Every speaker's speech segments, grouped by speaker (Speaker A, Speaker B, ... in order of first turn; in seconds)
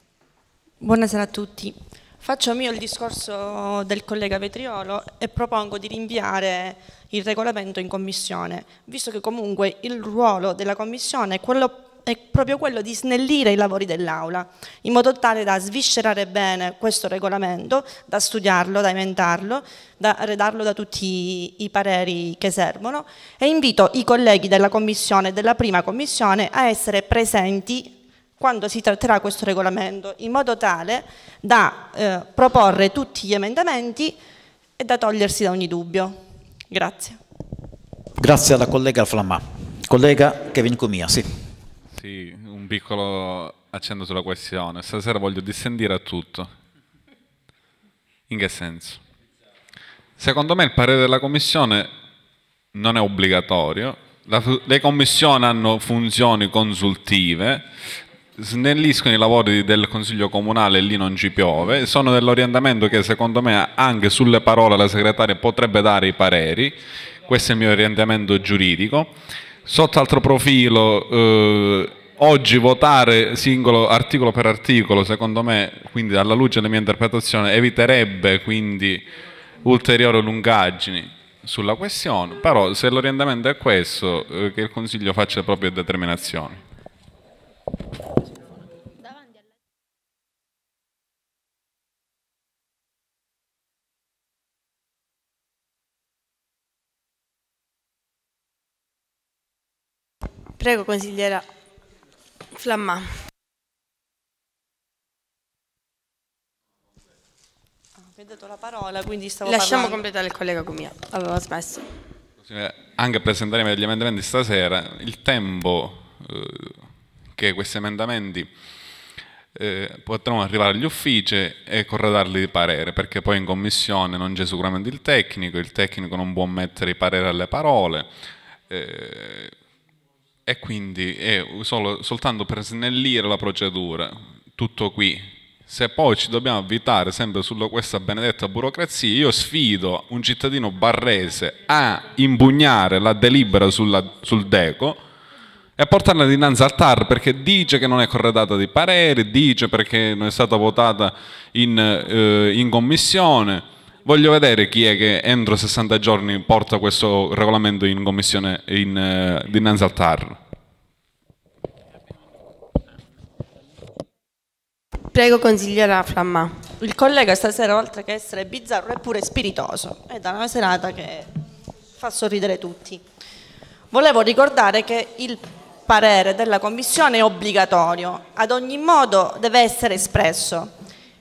Speaker A: 0.8-34.2, 34.8-37.2, 108.0-110.0, 166.8-171.3, 172.0-173.0, 173.9-180.7
Speaker B: 38.2-41.3
Speaker C: 41.9-46.5, 48.3-49.0, 50.2-51.9, 52.7-57.6, 58.4-69.1, 69.7-79.1, 79.6-86.6, 112.5-116.8, 117.3-118.5, 119.5-128.1, 128.7-129.5, 130.5-145.0, 145.8-160.4
Speaker D: 100.6-101.5, 102.5-103.1, 109.5-111.9, 165.1-166.6